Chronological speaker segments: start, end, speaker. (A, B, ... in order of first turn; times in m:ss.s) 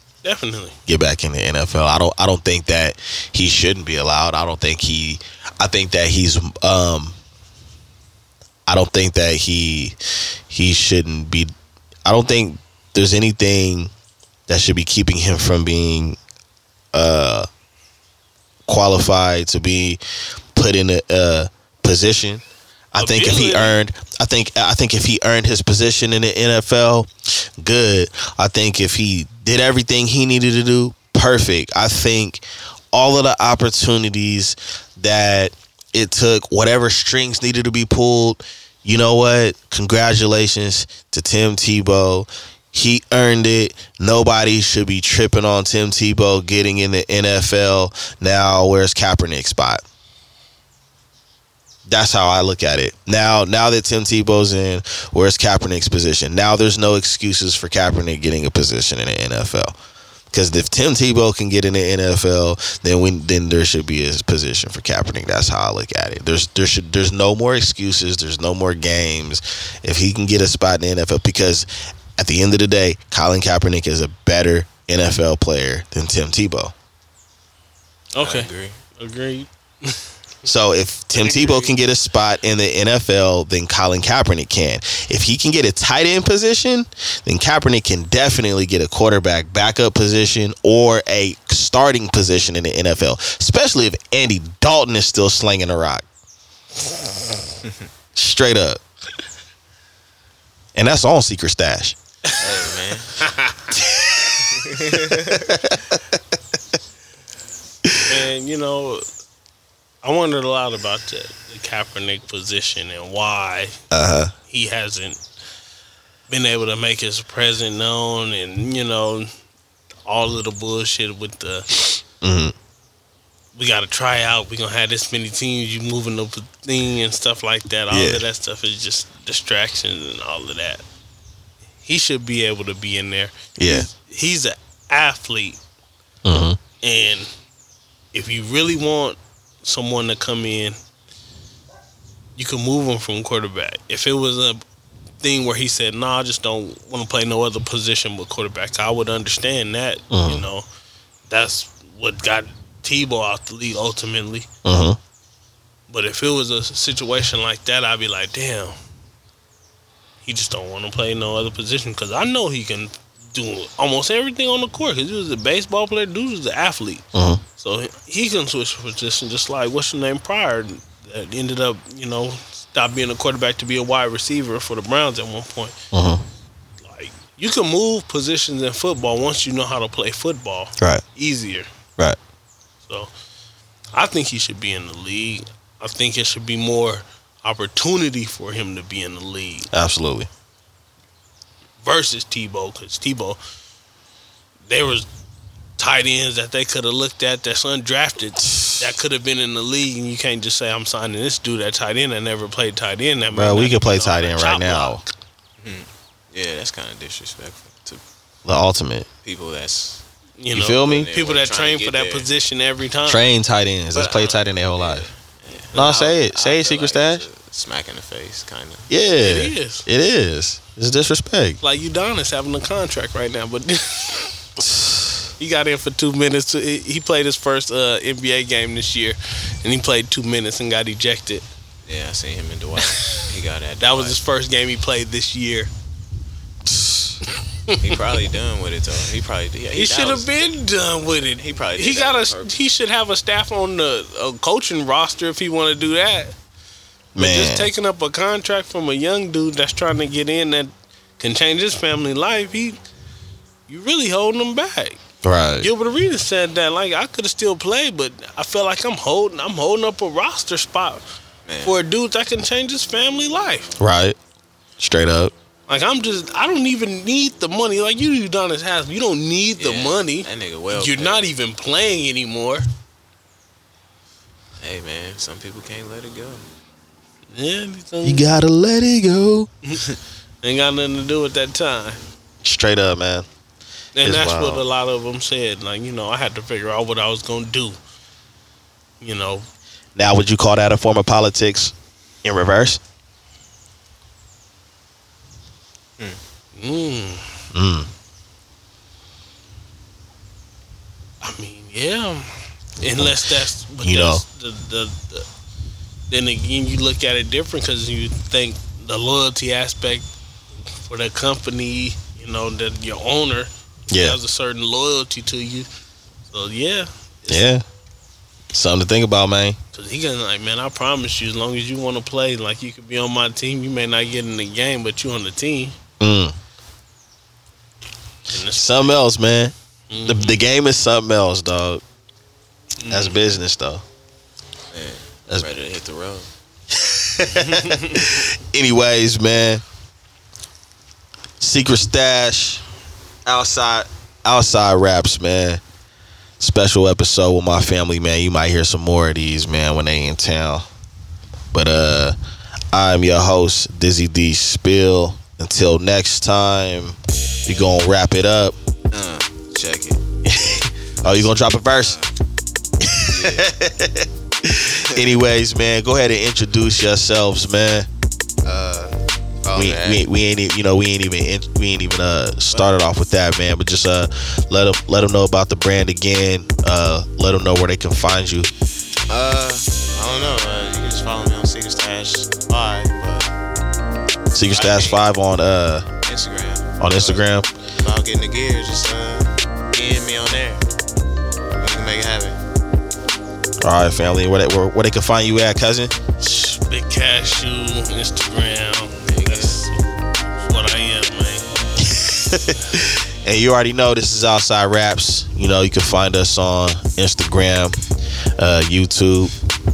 0:00.2-0:00.8 A
0:00.9-0:07.2 B
0:08.7-0:10.0 B
0:10.5-0:11.5 B
0:12.0-0:13.9 B
0:14.5-0:16.2 B
0:16.9-0:17.5 B
0:18.6-0:20.0 B
0:20.5-0:49.8 B
0:23.0-0:23.8 A
0:51.8-0:59.7 B
1:00.3-1:16.7 B
1:18.1-1:20.0 A
1:18.2-1:18.8 C
1:20.4-1:36.0 B
1:21.2-1:21.7 C
1:38.1-1:38.8 B
1:40.7-1:42.0 B
1:42.3-1:42.6 A
1:42.3-1:43.2 C
1:43.2-1:43.8 A
1:44.4-1:45.5 C
1:45.3-1:46.1 B
1:47.8-1:48.2 B
1:48.0-1:49.0 A
1:50.0-1:53.8 A
1:53.9-1:54.3 B
1:54.5-1:55.2 A
1:56.3-1:59.3 A
2:00.0-2:02.0 A
2:02.2-2:02.5 B
2:03.5-2:10.8 A
2:07.9-2:08.2 B
2:11.8-2:15.6 A
2:13.6-2:13.9 B
2:16.2-2:16.6 B
2:16.8-2:17.3 A
2:18.1-2:20.8 A
2:22.4-2:24.6 A
2:25.2-2:30.6 A
2:30.1-2:30.4 B
2:31.3-2:34.5 A
2:34.6-2:35.0 B
2:35.9-2:38.8 A
2:40.2-2:47.0 A
2:47.1-2:47.4 B
2:47.6-2:55.8 A
2:55.9-2:56.2 B
2:56.8-3:01.7 A
3:02.8-3:03.1 A
3:03.9-3:09.7 A
3:09.7-3:10.3 B
3:11.8-3:13.4 A
3:14.7-3:15.1 A
3:15.8-3:25.0 A
3:18.4-3:19.0 B
3:23.3-3:25.0 B
3:25.6-3:28.0 C
3:28.4-3:29.1 B
3:29.2-3:30.0 C
3:30.4-3:33.2 A
3:30.5-3:31.1 B
3:30.9-3:32.3 C
3:33.0-3:35.1 B
3:33.9-3:38.9 C
3:35.7-3:37.2 B
3:38.9-3:41.6 B
3:39.2-3:39.8 A
3:41.6-3:44.3 A
3:44.6-3:45.3 B
3:45.4-3:51.4 A
3:51.8-3:54.2 C
3:53.0-3:53.2 A
3:53.8-3:55.7 A
3:56.6-3:57.2 B
3:57.7-3:58.0 A
3:57.8-4:00.5 C
3:59.7-4:06.3 A
4:01.3-4:02.6 C
4:07.1-4:07.7 B
4:07.2-4:12.8 A
4:13.7-4:15.0 A
4:15.2-4:15.7 B
4:15.6-4:21.0 A
4:21.4-4:21.8 C
4:21.6-4:23.7 A
4:23.8-4:24.2 B
4:24.8-4:25.3 B
4:25.7-4:32.6 A
4:29.6-4:31.3 C
4:34.6-4:36.4 C
4:37.3-4:38.2 A
4:38.0-4:39.5 B
4:39.6-4:42.0 A
4:42.4-4:43.3 B
4:43.9-4:47.8 A
4:44.0-4:44.6 B
4:49.0-4:49.4 A
4:49.9-4:52.8 B
4:56.6-4:57.3 A
4:57.5-4:57.9 B
5:01.2-5:05.3 A
5:02.8-5:03.2 B
5:03.8-5:04.2 B
5:06.1-5:10.1 A
5:10.8-5:15.7 A
5:13.9-5:14.2 B
5:16.3-5:17.5 A
5:17.3-5:17.6 B
5:18.5-5:19.6 B
5:19.7-5:25.8 A
5:26.0-5:26.4 B
5:28.3-5:29.0 A
5:28.5-5:31.8 B
5:29.9-5:30.4 A
5:32.8-5:33.2 A
5:32.9-5:33.8 B
5:34.7-5:36.3 C
5:36.7-5:39.6 B
5:37.3-5:38.2 A
5:41.4-5:42.6 B
5:43.2-5:45.6 B
5:46.4-5:50.7 B
5:51.5-5:52.2 B
5:52.7-5:58.5 B
5:58.9-6:00.0 C
6:00.2-6:02.0 B
6:01.0-6:02.1 C
6:02.8-6:07.9 B
6:03.0-6:03.5 C
6:04.7-6:05.3 C
6:08.4-6:10.0 C
6:09.5-6:18.5 B
6:19.1-6:23.3 C
6:24.3-6:25.9 B
6:24.5-6:25.0 C
6:26.0-6:30.6 C
6:26.8-6:27.5 B
6:31.6-6:32.4 C
6:33.6-6:35.9 B
6:36.2-6:39.8 A
6:39.1-6:39.6 C
6:40.4-6:41.4 A
6:41.8-6:47.8 B
6:48.4-6:49.3 B